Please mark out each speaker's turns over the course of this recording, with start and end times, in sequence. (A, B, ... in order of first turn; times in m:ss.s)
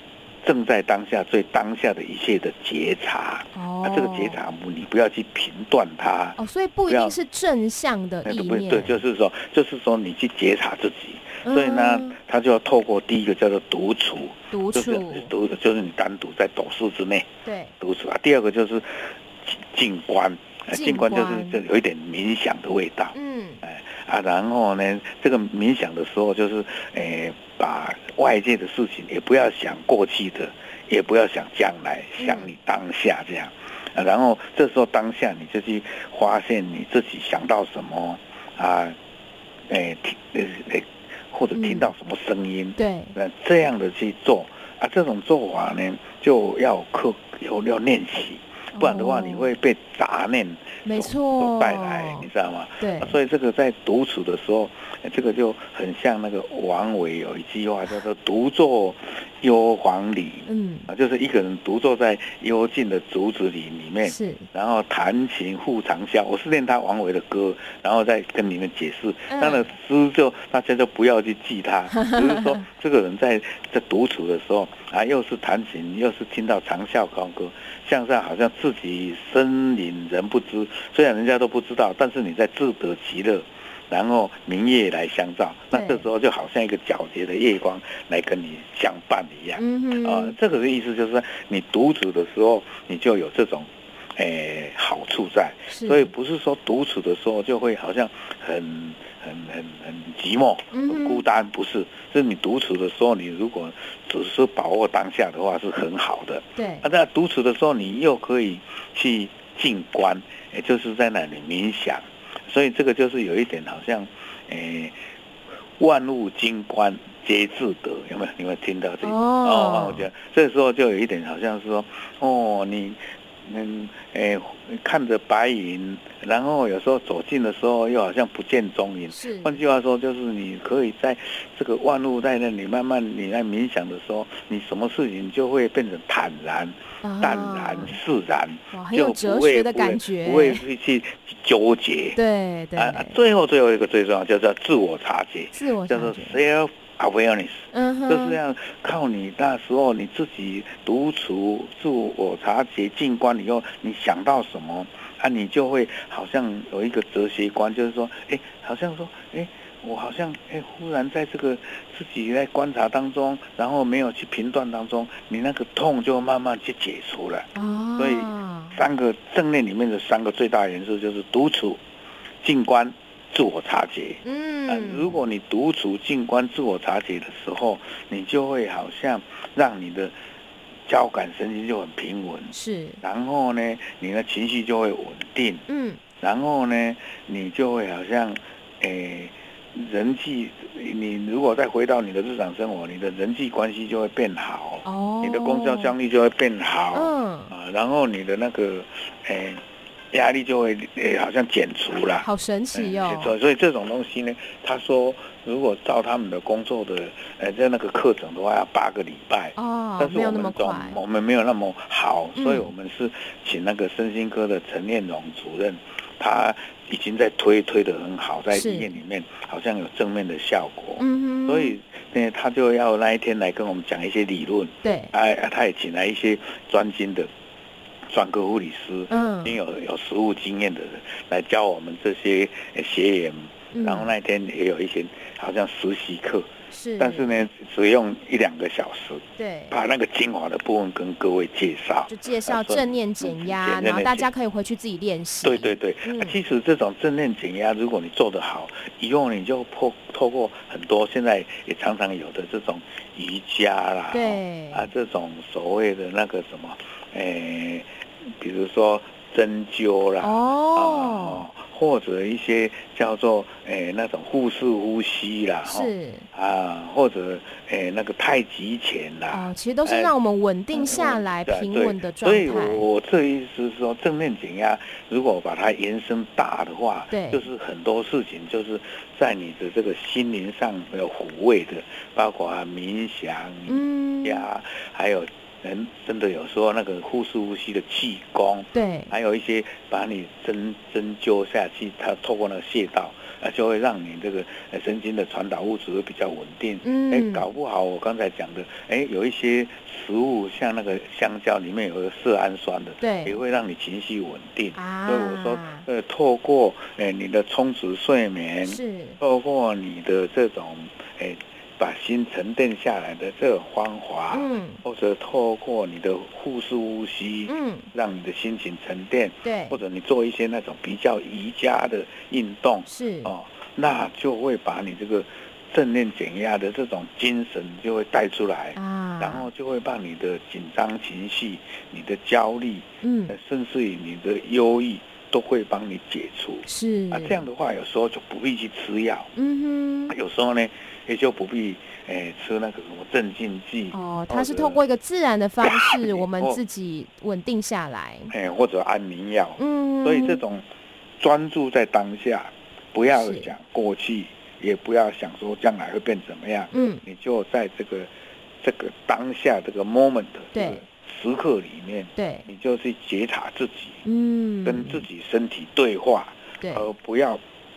0:00.4-0:07.2 A
0:03.5-0:04.4 B
0:06.4-0:09.0 B
0:08.2-0:17.3 A
0:11.4-0:12.2 B
0:14.5-0:15.3 B
0:17.4-0:17.7 B
0:17.8-0:39.0 A
0:20.7-0:21.6 B
0:23.1-0:23.6 B
0:32.2-0:32.5 B
0:39.7-1:55.0 A
0:41.5-0:41.9 B
0:42.8-0:43.2 B
0:48.8-0:49.5 B
0:50.8-0:52.3 B
0:52.8-0:53.2 B
1:00.5-1:00.9 B
1:04.0-1:04.5 B
1:09.3-1:09.7 B
1:12.0-1:12.4 B
1:25.7-1:26.1 B
1:29.6-1:30.4 B
1:35.7-1:36.1 B
1:40.7-1:41.3 B
1:46.6-1:46.8 B
1:55.8-2:22.2 A
1:59.0-2:00.0 B
2:09.1-2:09.6 B
2:17.0-2:18.0 B
2:18.7-2:20.6 B
2:22.2-2:23.2 B
2:22.8-2:51.8 A
2:25.5-2:26.4 B
2:27.7-2:28.4 B
2:47.5-2:48.8 B
2:52.4-3:00.1 A
2:54.2-2:55.2 B
3:00.8-3:05.7 A
3:02.5-3:03.0 B
3:05.7-3:06.0 B
3:06.2-3:47.3 A
3:14.8-3:16.0 B
3:16.9-3:17.5 B
3:22.2-3:23.3 B
3:29.6-3:31.0 B
3:32.4-3:32.7 B
3:38.5-3:38.9 B
3:41.0-3:41.8 B
3:44.8-3:45.1 B
3:48.1-4:04.3 A
3:49.1-3:49.6 B
3:53.7-3:54.1 B
3:56.7-3:57.3 B
3:59.4-3:59.8 B
4:02.1-4:06.4 B
4:05.4-4:30.1 A
4:14.1-4:14.9 B
4:20.2-4:21.5 B
4:25.6-4:26.3 B
4:29.3-4:32.9 B
4:30.7-5:39.3 A
4:37.1-4:37.5 B
4:43.7-4:44.5 B
4:48.7-4:49.1 B
4:56.8-4:57.5 B
5:03.0-5:03.4 B
5:04.8-5:05.8 B
5:08.6-5:09.2 B
5:14.3-5:14.8 B
5:17.5-5:17.9 B
5:19.4-5:19.8 B
5:22.8-5:23.3 B
5:28.8-5:29.5 B
5:33.0-5:33.3 B
5:36.6-5:37.5 B
5:39.3-5:40.2 B
5:40.1-5:44.8 A
5:43.9-5:48.3 B
5:45.6-5:46.6 A
5:48.3-5:50.6 A
5:49.6-5:50.4 B
5:51.2-6:04.0 A
5:53.1-5:53.5 B
5:56.7-5:57.0 B
6:00.5-6:00.8 B
6:02.2-6:02.5 B
6:04.0-6:05.1 B
6:04.6-6:07.4 A
6:06.6-6:06.9 B